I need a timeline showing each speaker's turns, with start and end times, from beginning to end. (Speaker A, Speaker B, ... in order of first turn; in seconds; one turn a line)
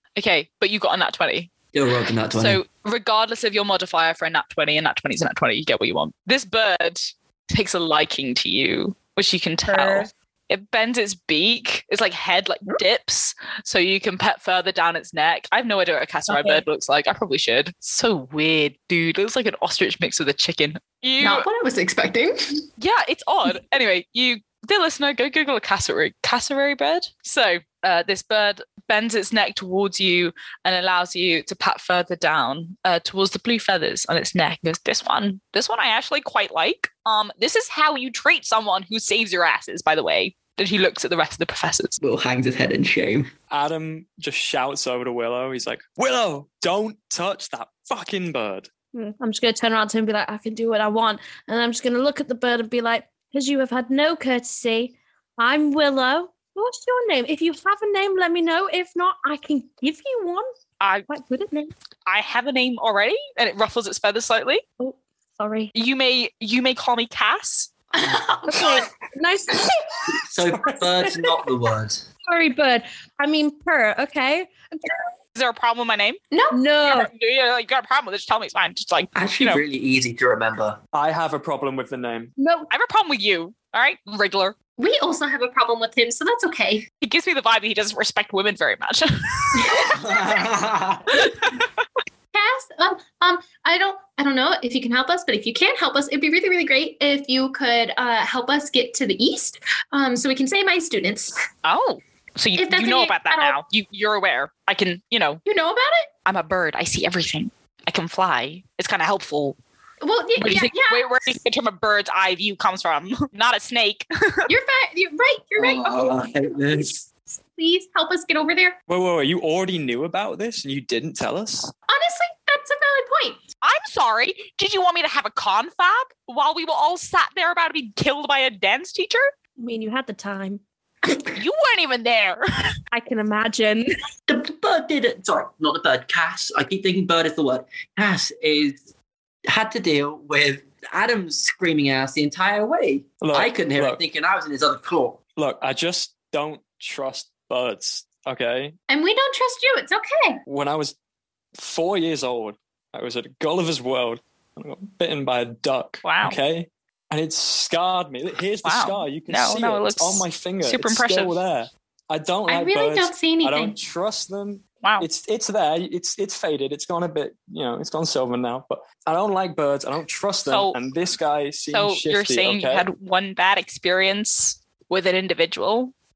Speaker A: 0.1-1.5
Speaker B: 1.7-2.6
Speaker A: 2.3-21.5
Speaker C: 9.6-10.1
Speaker C: 16.3-16.6
Speaker D: 21.2-22.6
Speaker A: 22.8-42.0
Speaker B: 42.0-43.3
Speaker E: 43.5-48.7
Speaker C: 48.9-60.5
Speaker A: 60.8-61.1
Speaker C: 61.1-61.7
Speaker A: 62.1-64.6
Speaker C: 64.8-65.7
Speaker A: 65.7-67.7
Speaker D: 68.0-68.7
Speaker C: 68.4-70.3
Speaker B: 70.3-72.0
Speaker C: 72.2-75.0
Speaker A: 75.3-76.2
Speaker D: 76.3-76.6
Speaker C: 76.5-77.1
Speaker A: 76.8-79.6
Speaker B: 79.1-80.8
Speaker E: 80.9-82.3
Speaker C: 82.4-82.7
Speaker A: 82.7-84.5
Speaker D: 84.8-86.8
Speaker A: 87.0-89.7
Speaker D: 89.6-90.4
Speaker B: 89.7-91.2
Speaker D: 92.3-101.4
Speaker A: 101.6-105.4
Speaker D: 102.5-103.6
Speaker D: 105.4-106.1
Speaker A: 106.2-109.6
Speaker D: 110.0-111.1
Speaker A: 110.4-114.1
Speaker D: 114.5-116.3
Speaker B: 115.6-117.0
Speaker D: 117.5-118.8
Speaker E: 118.9-121.7
Speaker D: 121.9-123.4
Speaker A: 123.6-129.3
Speaker C: 129.6-130.6
Speaker A: 131.3-132.7
Speaker C: 132.9-133.9
Speaker B: 134.3-138.8
Speaker B: 139.5-145.2
Speaker E: 143.2-144.0
Speaker E: 145.3-148.7
Speaker D: 148.9-150.4
Speaker E: 150.4-150.9
Speaker E: 151.6-172.9
Speaker A: 156.0-156.4
Speaker A: 158.6-161.3
Speaker D: 162.5-163.8
Speaker A: 164.8-165.1
Speaker A: 170.5-170.8
Speaker A: 171.7-175.9